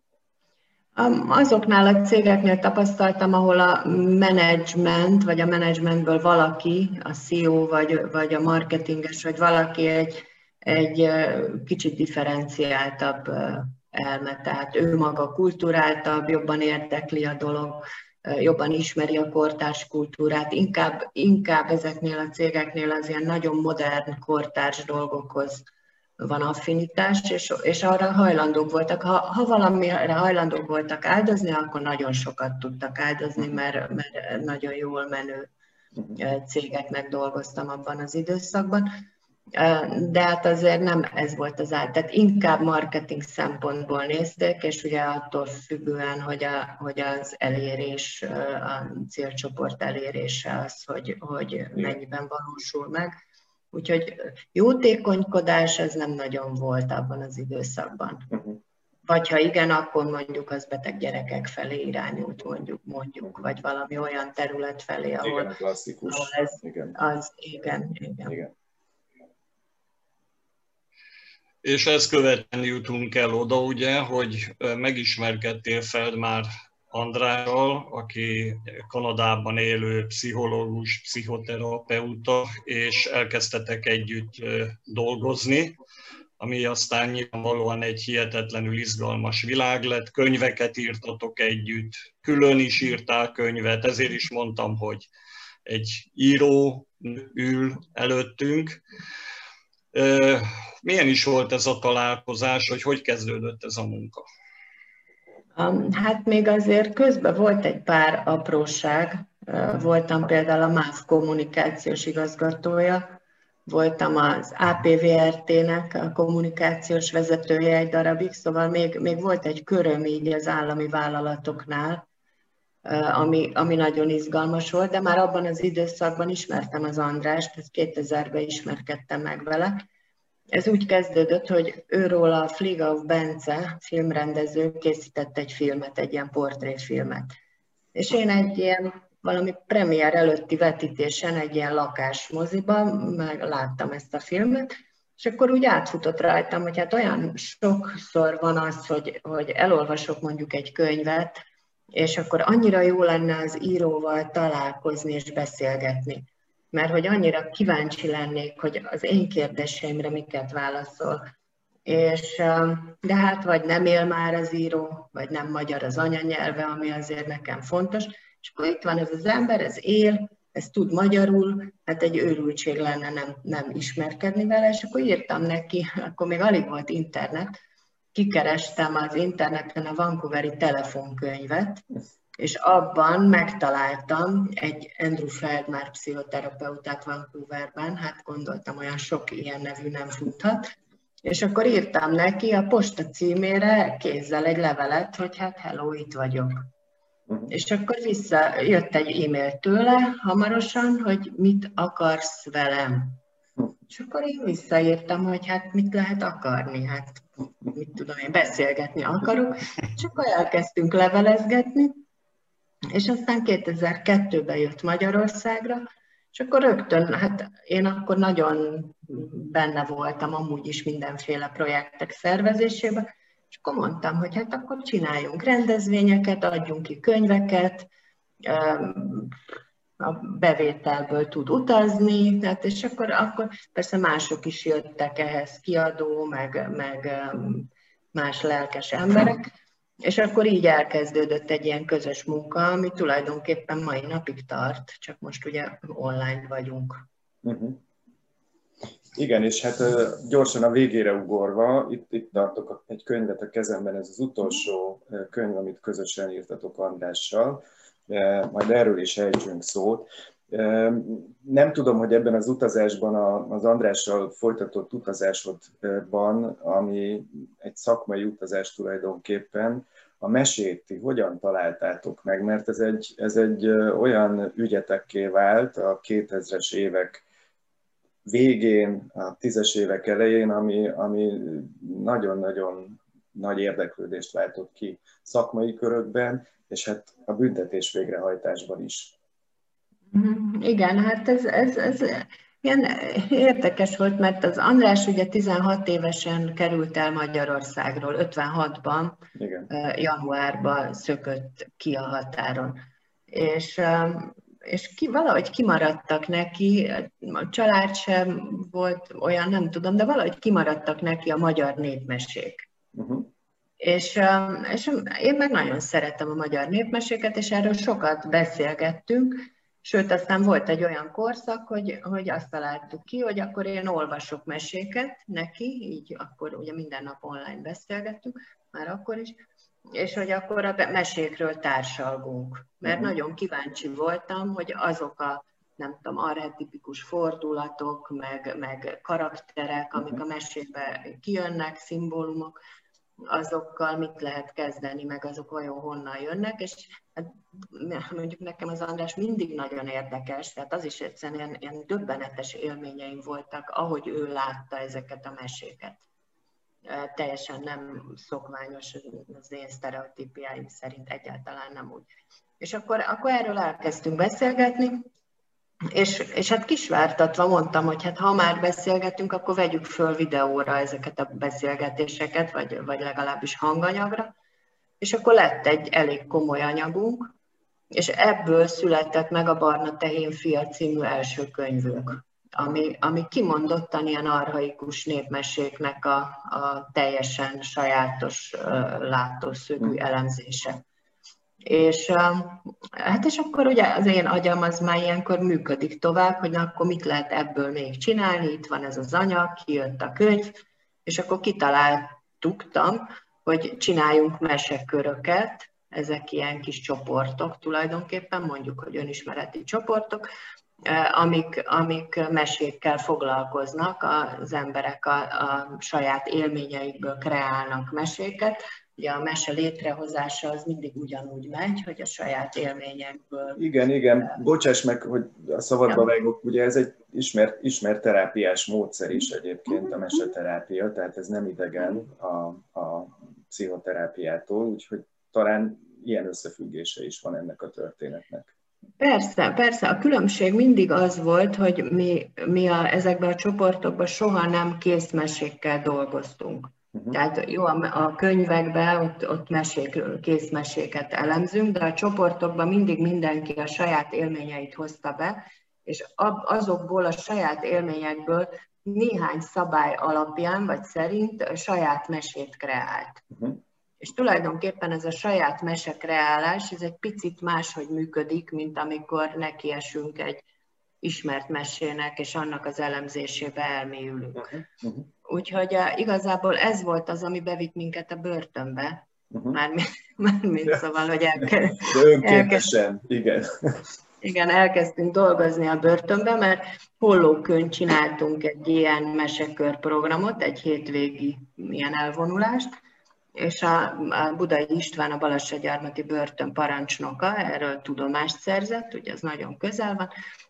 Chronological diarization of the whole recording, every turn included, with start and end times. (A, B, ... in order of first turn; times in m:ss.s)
0:01.0-0:25.7 A
0:26.2-0:35.5 A
0:36.2-0:38.9 A
0:39.5-0:53.1 A
0:53.7-0:58.3 A
0:58.3-0:58.6 B
0:59.1-1:08.4 A
1:05.2-1:07.0 B
1:11.6-1:25.8 C
1:26.4-1:35.1 C
1:35.7-1:38.8 C
1:39.9-1:44.3 C
1:45.6-1:53.0 A
1:53.7-2:02.0 A
2:02.8-2:09.8 A
2:10.5-2:17.3 A
2:18.0-2:31.4 A
2:31.9-2:41.2 A
2:41.9-2:57.6 A
2:58.1-3:01.8 A
3:02.4-3:10.6 A
3:11.2-3:16.7 A
3:17.5-3:23.2 A
3:23.9-3:32.0 A
3:32.9-3:35.8 A
3:36.3-3:47.9 A
3:48.4-3:49.3 A
3:50.0-3:59.5 A
4:00.0-4:07.0 A
4:07.4-4:07.8 B
4:09.2-4:37.2 B
4:38.2-4:49.2 B
4:50.1-4:59.2 A
4:59.4-4:59.7 B
4:59.7-5:02.8 A
5:03.3-5:12.6 A
5:13.0-5:13.3 B
5:13.8-5:29.4 A
5:30.0-5:42.6 A
5:32.8-5:33.1 B
5:43.3-5:56.0 A
5:56.9-6:02.1 A
6:02.6-6:05.0 A
6:05.9-6:14.3 A
6:15.0-6:17.3 A
6:17.9-6:30.8 A
6:31.7-6:40.6 A
6:41.1-6:50.3 A
6:50.9-7:03.6 A
7:03.6-7:18.5 B
7:19.0-7:43.2 A
7:44.0-7:50.4 A
7:51.0-7:54.6 A
7:54.4-7:55.1 B
7:55.2-7:59.0 A
7:59.3-7:59.6 B
7:59.5-8:02.7 A
8:01.8-8:03.8 B
8:04.2-8:12.7 A
8:13.4-8:20.1 A